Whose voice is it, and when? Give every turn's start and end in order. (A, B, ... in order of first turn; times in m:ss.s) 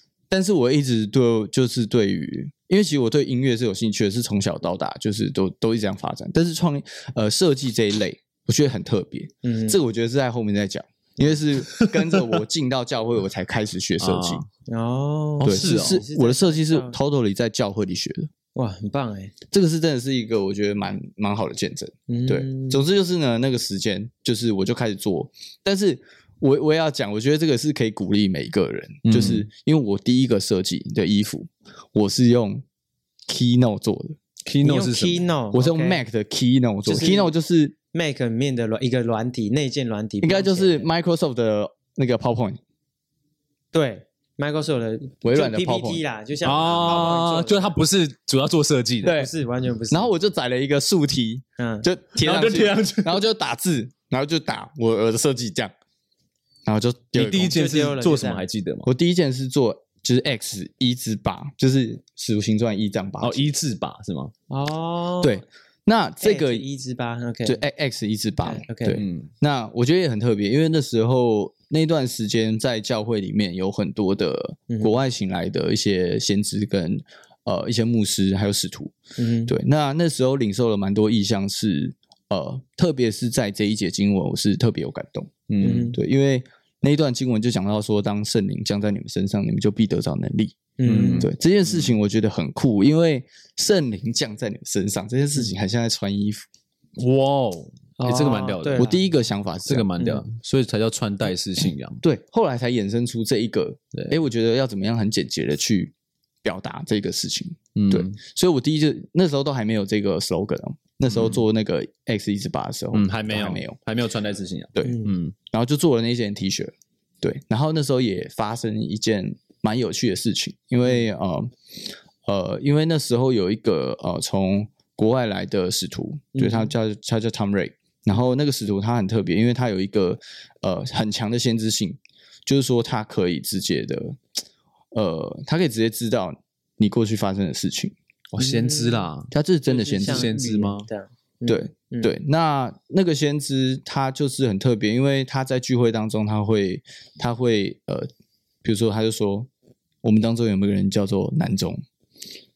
0:00.3-0:14.4 A
0:09.4-0:09.8 B
0:14.0-0:14.5 C
0:14.7-0:17.0 B
0:15.4-0:16.0 C
0:15.4-0:18.3 A
0:18.6-0:19.3 B
0:19.5-0:32.6 A
0:22.1-0:22.8 B
0:29.1-0:29.5 C
0:33.3-0:34.2 A
0:34.5-0:35.3 C
0:34.6-0:36.0 B
0:35.5-0:37.8 A
0:36.9-0:37.3 B
0:37.9-0:40.9 B
0:40.2-0:42.6 A
0:43.7-0:47.8 B
0:45.2-0:46.0 A
0:46.4-0:49.2 C
0:49.0-0:49.3 A
0:49.0-0:50.1 B
0:49.9-0:55.7 A
0:51.6-0:51.9 B
0:52.2-0:53.2 C
0:56.7-0:57.6 A
0:57.1-0:58.9 C
0:57.5-0:58.4 B
0:58.8-1:03.5 A
1:03.2-1:04.3 C
1:04.5-1:05.4 B
1:05.2-1:06.6 A
1:06.2-1:07.6 B
1:07.4-1:18.9 A
1:08.4-1:09.0 B
1:08.9-1:09.3 C
1:19.2-1:19.5 B
1:19.5-1:36.5 A
1:25.5-1:25.9 C
1:25.6-1:26.0 B
1:30.8-1:31.3 B
1:30.9-1:31.9 C
1:37.0-1:38.9 C
1:38.0-1:39.0 B
1:38.8-1:39.9 A
1:39.7-1:42.0 C
1:40.0-1:40.2 B
1:42.0-1:53.8 A
1:47.8-1:48.1 C
1:51.1-1:51.4 C
1:52.9-1:55.3 C
1:54.8-2:01.5 A
1:54.8-1:55.1 B
2:02.2-2:14.2 A
2:06.4-2:06.7 B
2:14.9-2:18.0 A
2:18.3-2:19.3 C
2:18.4-2:19.1 B
2:19.3-2:20.3 A
2:19.7-2:22.1 B
2:20.0-2:20.9 C
2:21.5-2:28.1 A
2:28.6-2:29.5 A
2:30.0-2:31.8 A